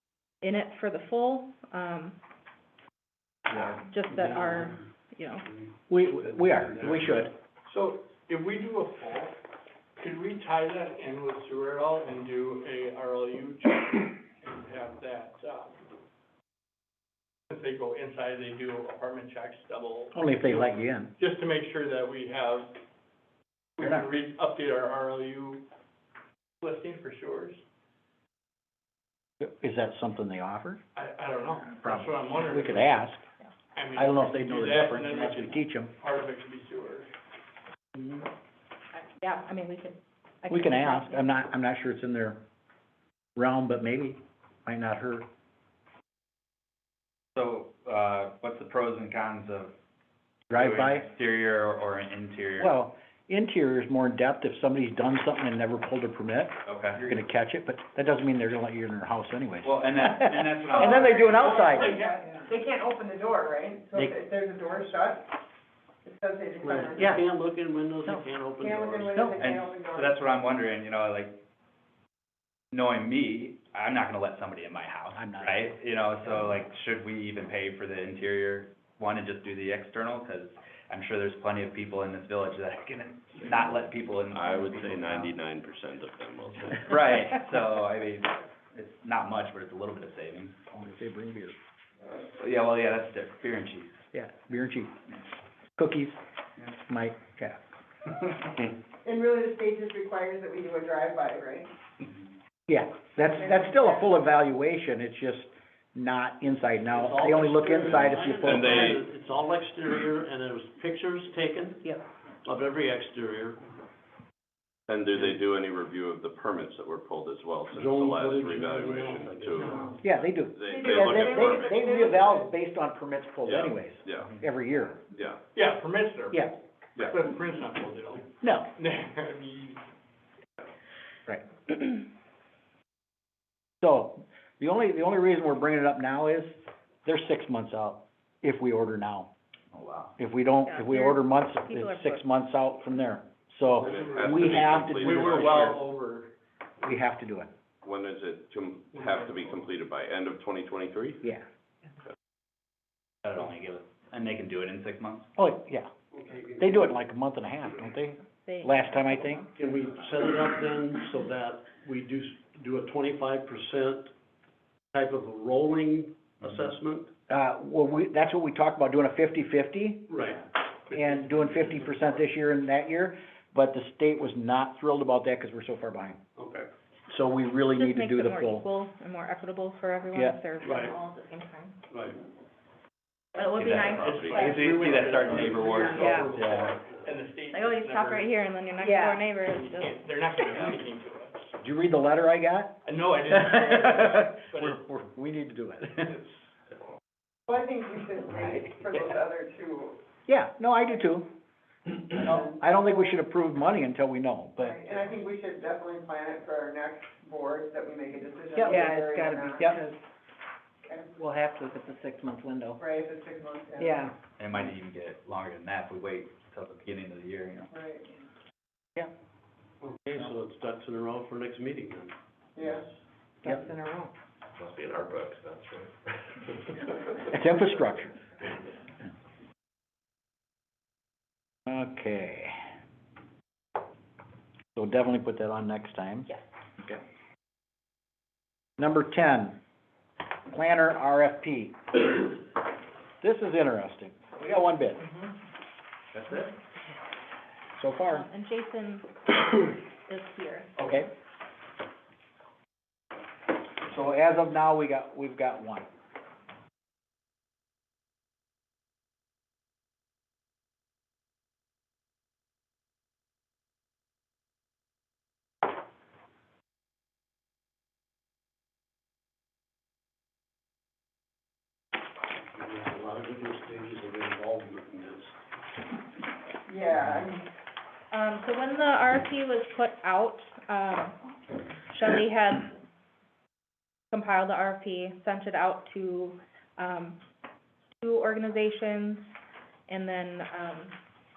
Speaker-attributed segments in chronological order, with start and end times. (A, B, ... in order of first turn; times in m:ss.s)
0:00.4-0:02.2 A
0:03.6-0:05.5 A
0:05.9-0:07.3 B
0:06.5-0:07.3 C
0:07.7-0:09.4 D
0:10.0-0:15.8 D
0:17.5-0:22.7 D
0:20.1-0:21.1 B
0:23.8-0:25.6 D
0:26.6-0:27.6 D
0:29.4-0:30.8 B
0:31.0-0:33.0 D
0:31.8-0:33.2 B
0:33.8-0:37.1 D
0:34.0-0:35.9 B
0:38.9-0:41.3 A
0:40.5-0:42.4 B
0:43.4-0:45.3 B
0:47.4-0:49.7 E
0:50.5-0:51.1 B
0:50.5-0:52.7 E
0:52.6-1:02.0 B
0:56.7-0:57.2 E
0:59.6-1:01.9 E
1:00.8-1:05.3 F
1:01.3-1:01.9 C
1:01.5-1:02.1 D
1:06.0-1:07.2 F
1:06.6-1:09.2 C
1:07.0-1:07.2 B
1:08.6-1:10.2 F
1:09.4-1:11.4 E
1:12.7-1:25.4 E
1:15.1-1:15.8 B
1:23.4-1:23.7 G
1:24.3-1:27.0 G
1:26.8-1:30.6 E
1:30.7-1:31.6 B
1:32.1-1:34.0 E
1:34.1-1:34.9 B
1:35.8-1:36.2 B
1:36.7-1:37.6 B
1:39.0-1:41.7 F
1:42.7-1:49.0 B
1:43.2-1:44.2 F
1:46.9-1:53.6 C
1:47.8-1:49.1 G
1:54.9-2:00.0 G
1:57.7-2:00.1 C
1:59.0-1:59.8 D
2:00.0-2:05.0 B
2:00.5-2:01.9 G
2:00.7-2:02.5 F
2:03.4-2:04.4 G
2:05.1-2:05.4 G
2:05.6-2:06.4 D
2:07.0-2:08.2 D
2:08.4-2:08.7 B
2:08.8-2:09.8 D
2:13.8-2:19.3 B
2:19.7-2:20.2 E
2:20.2-2:25.8 B
2:20.7-2:22.2 A
2:23.8-2:25.8 G
2:23.9-2:25.9 C
2:25.2-2:26.2 D
2:26.8-2:27.5 B
2:27.8-2:31.2 G
2:33.2-2:35.3 E
2:35.4-2:35.9 B
2:36.2-2:36.8 C
2:36.6-2:39.4 B
2:38.5-2:39.4 A
2:39.6-2:44.1 C
2:44.9-2:47.1 C
2:47.3-2:50.2 B
2:50.1-2:51.8 C
2:50.9-2:56.2 B
2:56.4-2:56.7 C
2:57.1-2:58.7 B
2:57.8-3:01.8 A
3:00.6-3:01.0 C
3:01.9-3:02.2 C
3:03.4-3:04.6 A
3:03.5-3:06.8 E
3:04.0-3:08.2 D
3:04.1-3:04.5 G
3:04.2-3:07.0 C
3:05.8-3:06.3 H
3:07.5-3:10.7 A
3:07.6-3:08.1 C
3:08.8-3:09.2 H
3:09.5-3:11.5 D
3:10.4-3:10.7 C
3:11.6-3:16.2 B
3:12.9-3:14.7 D
3:13.4-3:13.7 C
3:17.5-3:20.0 F
3:18.3-3:18.7 B
3:20.3-3:21.3 B
3:21.9-3:24.8 B
3:22.2-3:23.2 F
3:24.6-3:29.8 F
3:28.6-3:30.0 H
3:30.9-3:31.2 F
3:31.2-3:32.8 H
3:32.8-3:34.0 F
3:33.8-3:34.1 H
3:34.4-3:37.7 E
3:37.7-3:38.2 F
3:39.9-3:42.1 C
3:42.6-3:42.9 F
3:43.4-3:44.1 H
3:44.6-3:45.7 C
3:47.2-3:48.2 B
3:51.7-3:52.6 B
3:54.8-3:56.3 B
3:58.8-3:59.6 B
4:00.5-4:02.0 B
4:03.2-4:05.1 B
4:06.1-4:06.5 E
4:07.8-4:08.3 B
4:08.1-4:09.3 A
4:10.1-4:10.7 A
4:10.8-4:11.1 B
4:13.8-4:15.9 B
4:32.6-4:35.4 C
4:36.7-4:37.4 F
4:38.1-4:41.2 A
4:41.9-4:42.7 A
4:44.1-4:47.2 A
4:48.0-4:49.3 A
4:49.9-4:51.0 A